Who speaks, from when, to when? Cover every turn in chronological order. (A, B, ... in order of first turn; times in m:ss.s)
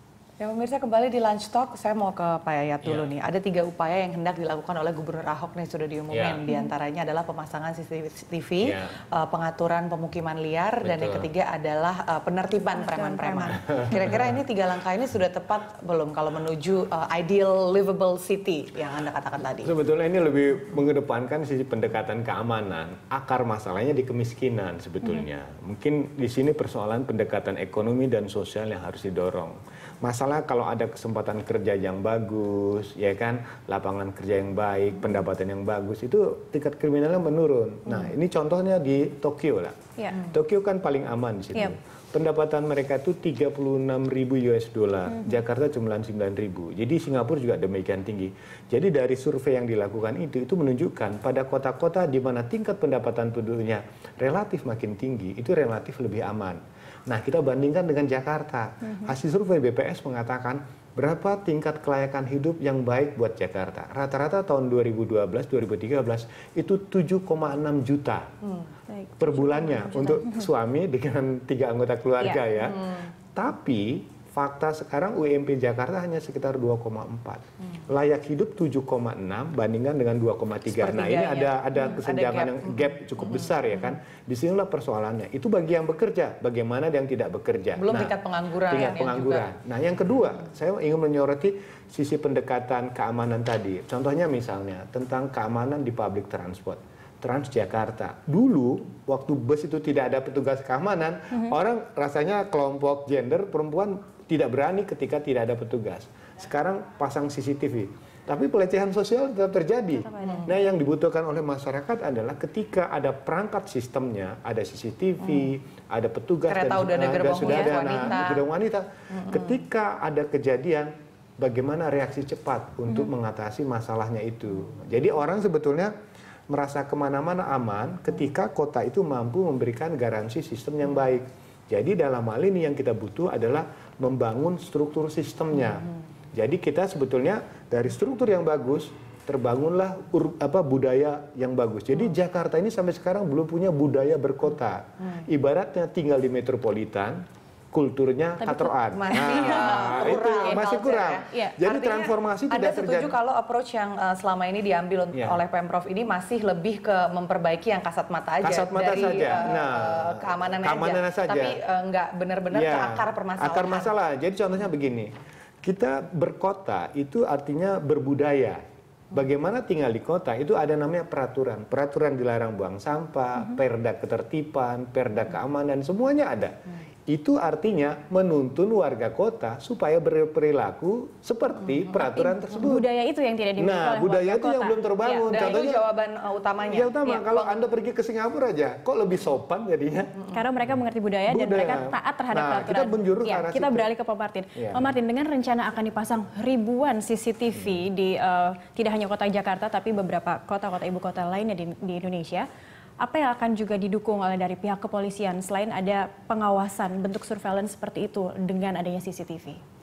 0:00.4-0:19.7 A
0:06.1-0:06.4 B
0:08.6-0:08.9 B
0:10.8-0:11.3 B
0:12.8-0:13.6 C
0:19.6-1:08.3 B
1:08.9-1:10.4 C
1:09.2-1:12.8 B
1:12.7-1:13.1 A
1:13.3-1:28.2 B
1:20.7-1:22.8 A
1:27.8-1:29.5 A
1:28.7-2:05.9 B
1:50.0-1:50.5 C
1:50.2-1:50.5 A
1:56.5-1:58.4 A
2:06.5-2:27.2 B
2:27.7-2:33.1 B
2:28.4-2:29.7 C
2:28.9-2:43.9 A
2:30.3-2:30.6 C
2:31.3-2:31.6 C
2:35.1-2:35.4 B
2:38.4-2:41.6 B
2:42.5-2:45.1 B
2:45.6-2:48.6 B
2:49.1-2:56.5 B
2:57.1-3:02.8 B
3:02.1-3:05.7 C
3:03.6-3:05.8 B
3:05.2-3:06.9 A
3:06.6-3:10.1 B
3:07.0-3:07.5 C
3:10.3-3:22.5 C
3:11.3-3:13.9 B
3:14.6-3:14.8 B
3:23.0-3:29.6 C